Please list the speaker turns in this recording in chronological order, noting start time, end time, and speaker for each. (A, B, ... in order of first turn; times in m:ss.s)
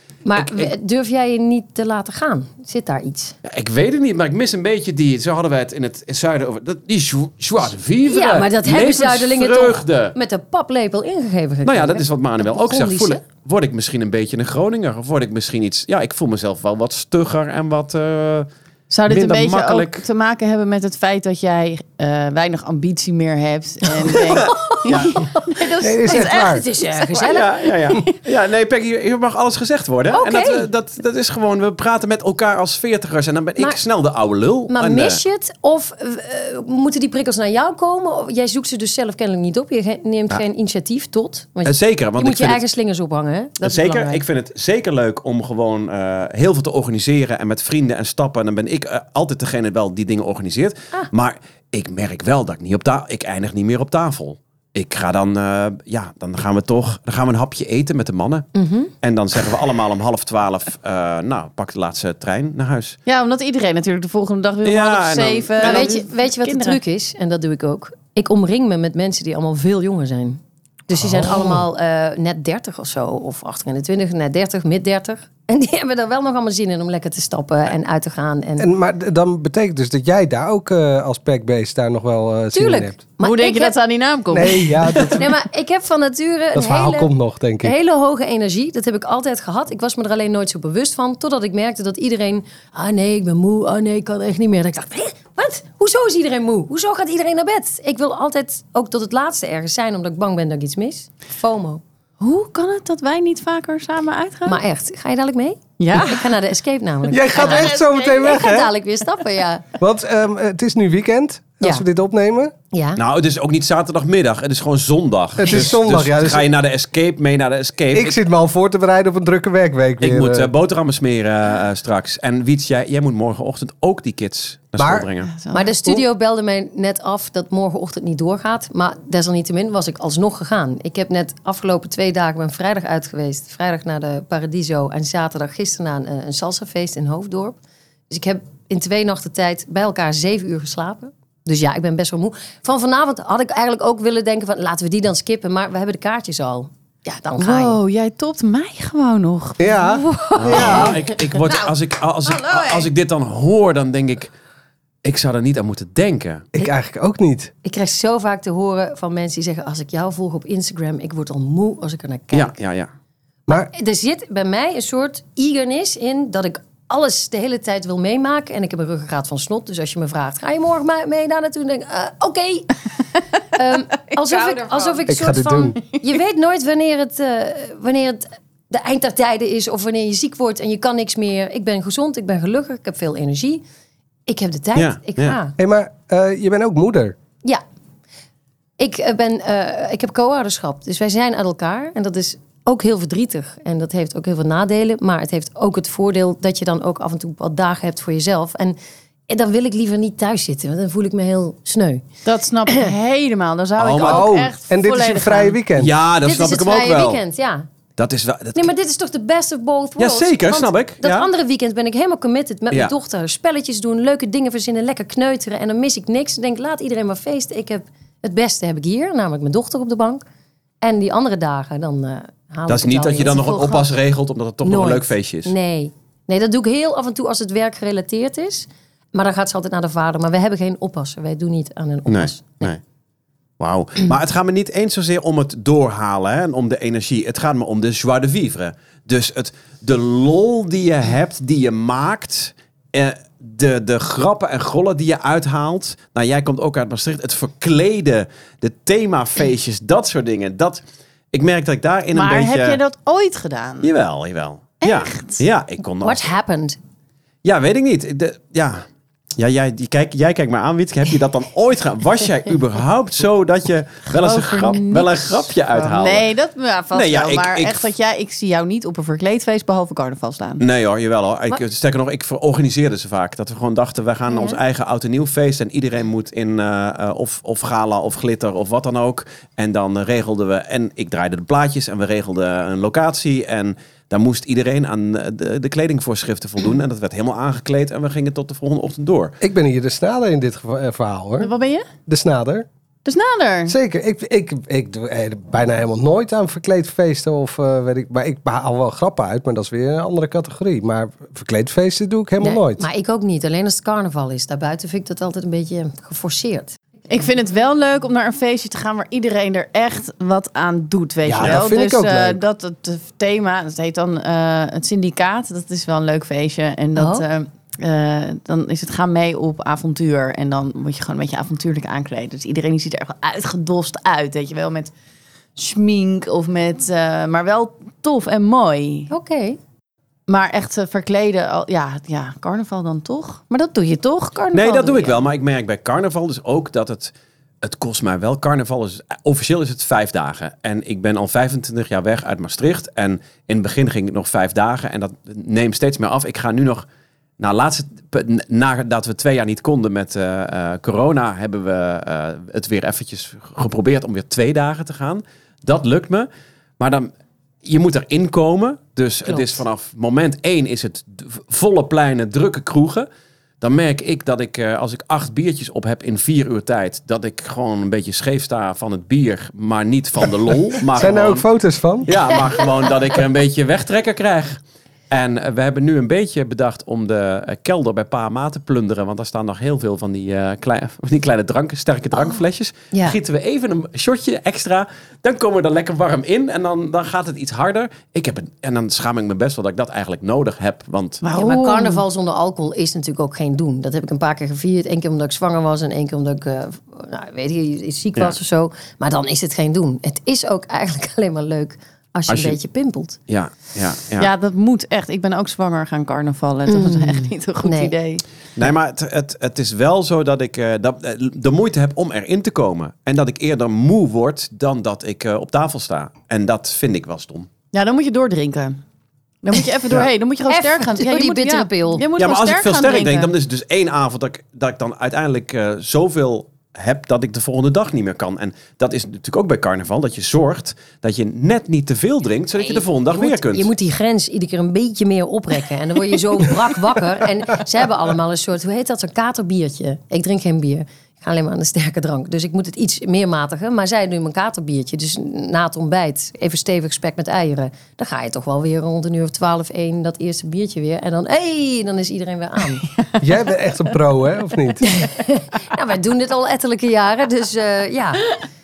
0:00.2-0:03.4 A
0:00.3-0:00.7 B
0:03.4-0:10.2 B
0:08.0-0:13.2 A
0:11.6-0:18.5 B
0:18.9-0:27.3 C
0:19.1-0:20.0 B
0:24.0-0:28.0 A
0:24.9-0:25.2 B
0:25.8-0:26.6 D
0:27.1-0:35.2 B
0:30.1-0:30.7 A
0:34.7-0:44.2 A
0:41.6-0:42.6 B
0:43.6-0:58.5 B
0:58.5-0:58.9 A
0:59.0-1:03.0 B
1:03.0-1:06.8 C
1:04.6-1:05.9 B
1:05.6-1:18.7 A
1:11.0-1:11.6 D
1:18.6-1:23.0 D
1:22.5-1:23.7 A
1:23.2-1:25.2 C
1:24.3-1:25.3 D
1:25.0-1:27.1 A
1:26.5-1:27.7 D
1:27.6-1:41.8 A
1:42.2-1:44.6 C
1:44.4-1:49.7 A
1:45.8-1:46.4 C
1:47.1-1:48.7 D
1:47.3-1:48.3 C
1:49.8-1:52.5 D
1:52.7-1:53.0 A
1:53.0-1:58.2 B
1:55.4-1:56.5 D
1:57.9-2:00.5 D
2:00.0-2:05.3 B
2:04.8-2:05.1 D
2:05.2-2:05.7 C
2:05.5-2:17.6 A
2:18.1-2:27.8 A
2:27.4-2:30.8 C
2:29.6-2:31.0 D
2:30.4-2:34.3 B
2:30.5-2:31.1 A
2:32.2-2:32.9 C
2:35.0-2:36.4 B
2:36.5-2:37.5 D
2:37.6-2:42.5 A
2:42.3-2:42.9 B
2:43.5-3:03.6 A
2:54.1-2:55.0 C
2:55.1-2:55.8 D
3:04.3-3:05.5 A
3:04.7-3:05.4 B
3:05.6-3:07.2 D
3:08.8-3:18.8 A
3:19.3-3:22.0 A
3:22.2-3:25.6 C
3:23.8-3:24.3 B
3:24.0-3:25.9 D
3:25.8-3:27.2 B
3:26.2-3:27.7 A
3:28.0-3:28.7 B
3:28.5-3:40.2 A
3:30.0-3:31.3 B
3:40.8-3:43.9 A
3:42.7-3:45.5 B
3:44.6-3:52.7 A
3:52.1-3:52.8 B
3:53.6-4:12.8 B
4:12.1-4:13.9 C
4:13.8-4:16.3 B
4:14.8-4:15.4 C
4:16.0-4:16.8 A
4:17.4-4:18.8 B
4:19.4-4:26.3 B
4:24.1-4:30.6 C
4:26.9-4:27.9 B
4:30.6-4:49.3 B
4:49.4-4:51.5 D
4:51.4-4:51.9 C
4:52.1-4:52.6 D
4:53.0-4:53.7 C
4:53.7-5:02.9 D
5:02.4-5:06.8 A
5:07.1-5:24.9 C
5:11.2-5:12.4 D
5:17.0-5:17.3 A
5:25.6-5:29.1 C
5:29.1-5:29.6 A
5:30.3-5:35.2 C
5:34.5-5:46.8 B
5:47.4-5:56.3 B
5:56.8-5:57.1 B
5:57.6-6:03.1 B
5:59.2-5:59.6 A
6:03.6-6:11.4 B
6:10.9-6:12.1 D
6:12.0-6:31.2 B
6:31.2-6:32.0 C
6:31.3-6:43.2 A
6:42.3-6:42.6 B
6:43.3-6:44.3 B
6:44.2-6:48.2 C
6:46.7-6:47.9 A
6:48.6-6:57.5 B
6:57.7-6:58.8 C
6:59.4-7:03.3 C
7:00.5-7:02.0 A
7:02.2-7:13.7 B
7:12.6-7:32.9 A
7:33.2-7:35.0 D
7:34.8-7:38.4 A